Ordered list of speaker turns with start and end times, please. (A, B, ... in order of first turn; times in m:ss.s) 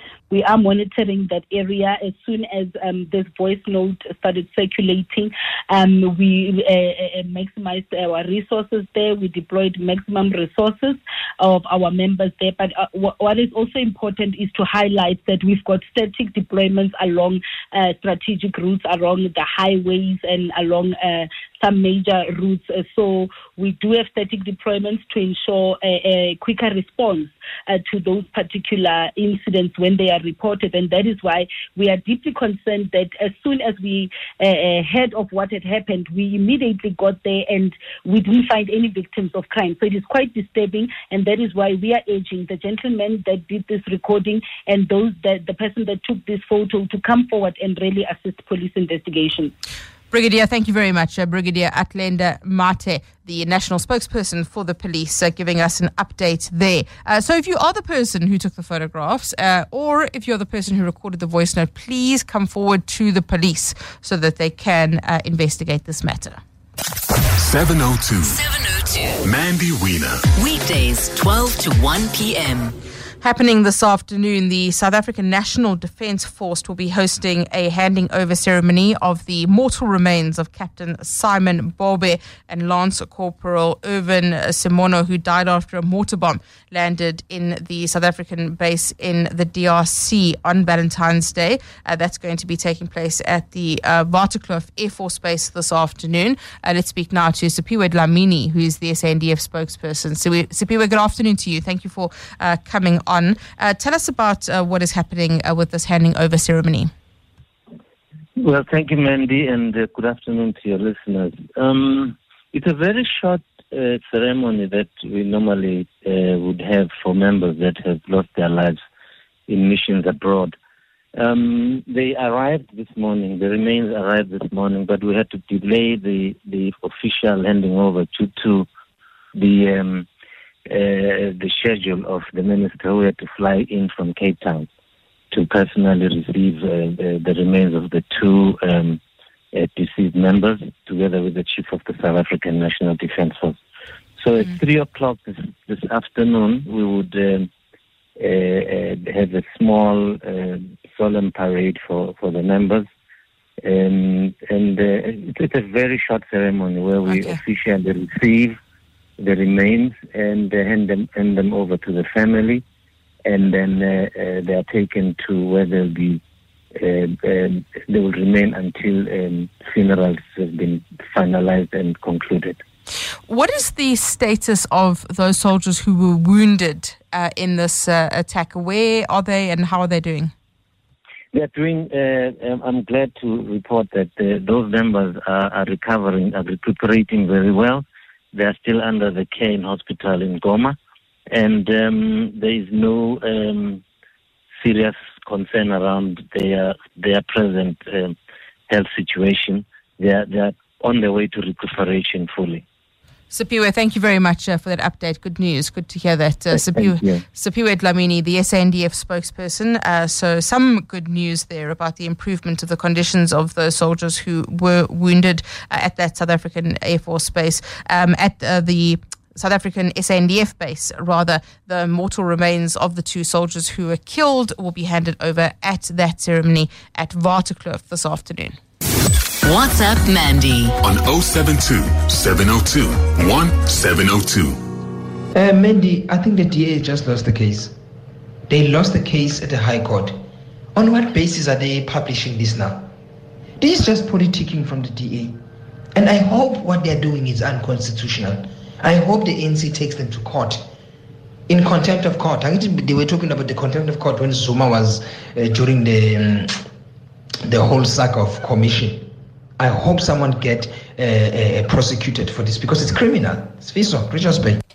0:00.3-0:49.5 A
0:50.1-1:06.4 B
1:07.4-1:08.4 C
1:08.3-1:09.2 D
1:09.2-1:10.2 C
1:10.3-1:12.7 D
1:13.2-1:46.9 B
1:48.4-1:58.8 E
1:59.5-2:00.6 E
2:01.2-2:08.7 E
2:09.3-2:10.1 E
2:10.6-2:14.7 E
2:15.3-2:19.0 E
2:19.5-2:23.6 E
2:24.2-2:27.5 E
2:28.2-2:32.9 E
2:33.6-2:38.6 E
2:37.1-2:37.4 B
2:39.2-2:42.6 E
2:43.2-2:46.2 E
2:46.8-2:52.6 E
2:53.3-3:00.3 B
3:01.3-3:10.8 E
3:11.3-3:13.8 E
3:14.6-3:18.2 E
3:18.7-3:22.6 E
3:23.3-3:48.6 B
3:26.5-3:27.2 E
3:49.4-3:50.8 D
3:50.8-3:54.6 C
3:55.3-3:57.8 F
3:58.5-4:00.2 F
4:00.7-4:02.9 F
4:03.6-4:05.4 F
4:05.9-4:10.7 F
4:11.5-4:16.7 F
4:17.4-4:24.6 F